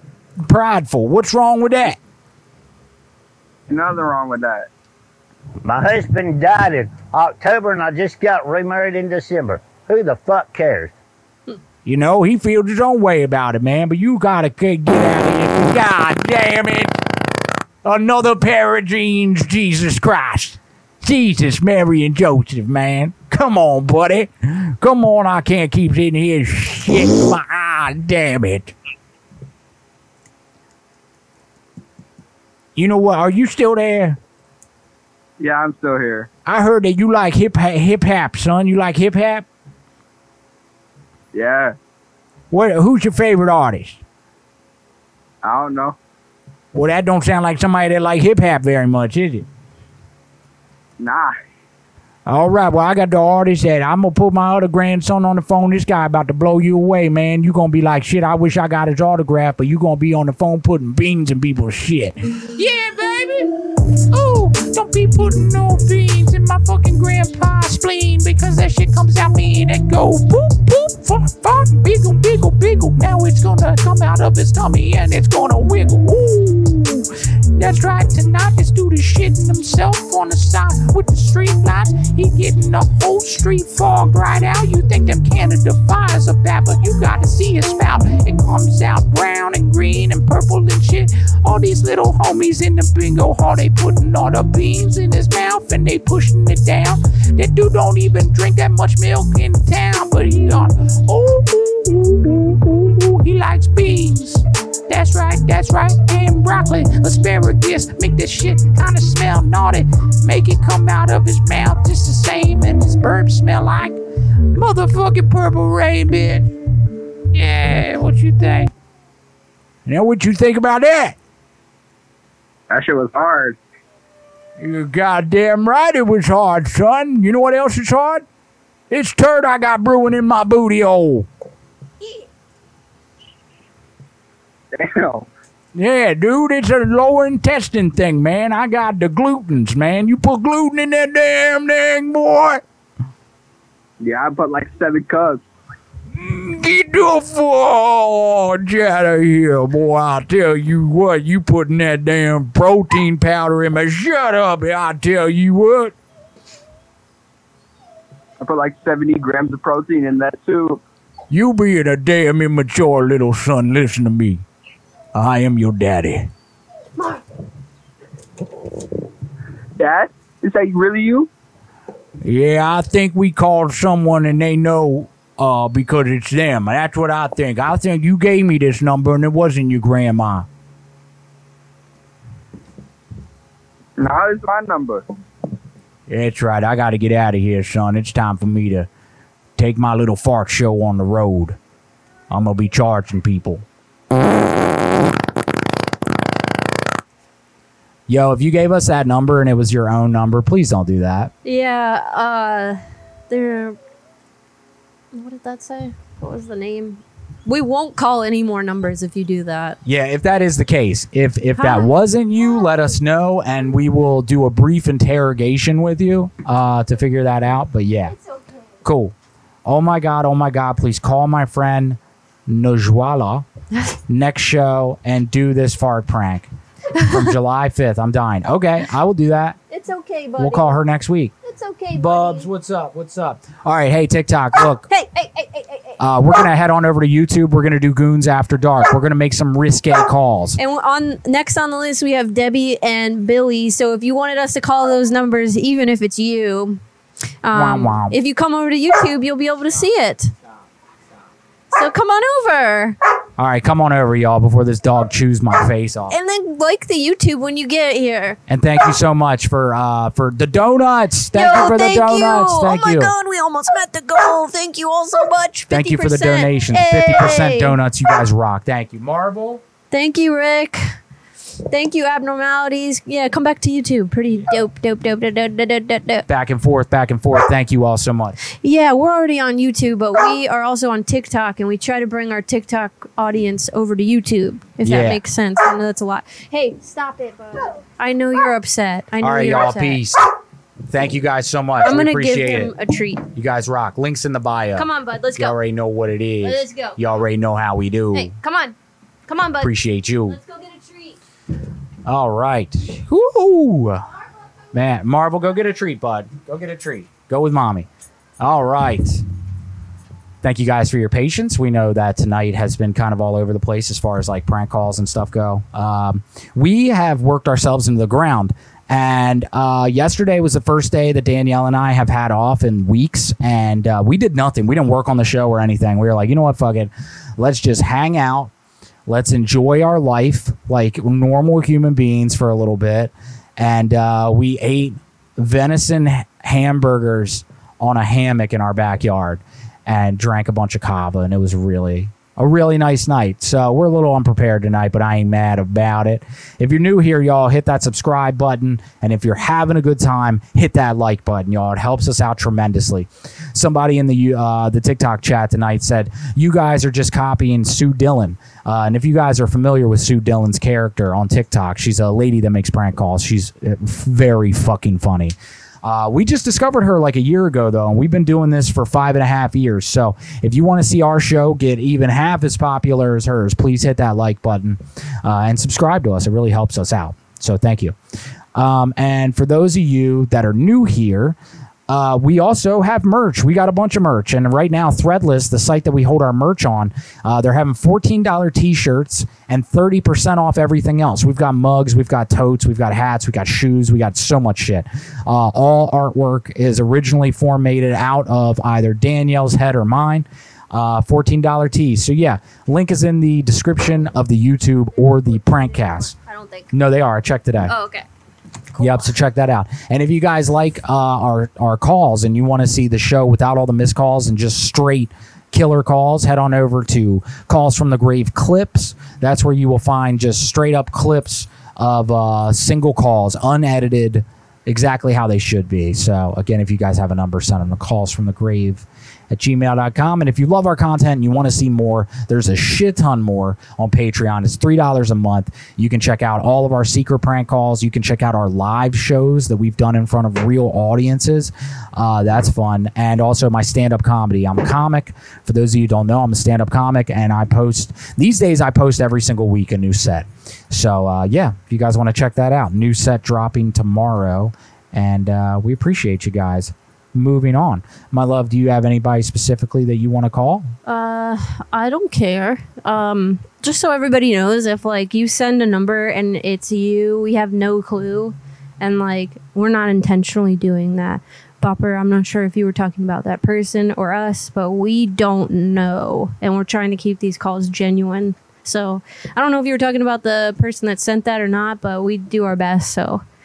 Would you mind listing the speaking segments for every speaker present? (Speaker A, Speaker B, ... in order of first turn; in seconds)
Speaker A: 0.5-2.0, 11.8-17.0, 17.8-28.7, 32.8-34.2, 36.5-39.5, 42.5-44.0, 46.7-49.5, 52.2-62.2, 119.8-121.2, 124.6-128.2, 128.9-131.3, 135.7-142.6, 146.1-155.9, 161.3-164.4, 165.1-166.3, 172.2-180.4, 186.1-188.9, 189.6-191.6, 192.3-193.6
Speaker B: 3.7-4.7, 35.4-36.3, 41.3-41.7, 45.4-46.0, 51.0-51.3, 122.7-123.6, 134.7-135.3, 144.0-145.4, 158.4-160.8, 169.8-171.3, 184.0-185.0
Speaker C: 5.6-10.9
Speaker D: 62.6-63.5, 64.1-114.0, 114.5-116.5, 117.3-118.7
Speaker E: 198.1-201.3, 209.8-218.1, 218.8-219.1, 219.6-223.5, 224.1-229.6, 230.4-231.3, 231.9-234.9, 236.0-240.6, 247.6-248.1, 253.4-256.1, 258.5-263.1, 265.7-269.6, 276.3-278.4, 284.8-285.2, 289.2-290.2, 290.9-292.7, 293.3-298.3, 299.6-300.4, 302.0-304.1, 304.7-307.9, 308.4-309.2, 310.4-328.5, 329.1-377.9, 378.5-381.4, 381.9-406.1, 406.7-407.7, 408.8-460.7
Speaker F: 201.4-202.8, 203.3-203.8, 205.1-209.8, 211.6-211.9, 226.9-227.2, 229.7-230.7, 231.4-232.5, 234.9-236.0, 240.6-246.8, 247.4-250.3, 251.7-253.0, 256.1-258.4, 261.3-267.8, 269.9-270.8, 271.7-276.2, 278.5-290.0, 291.8-293.2, 294.8-295.6, 296.4-297.0, 298.1-298.7, 299.3-299.7, 300.3-301.2, 406.1-406.7, 407.6-408.0, 408.7-409.1, 460.9-483.2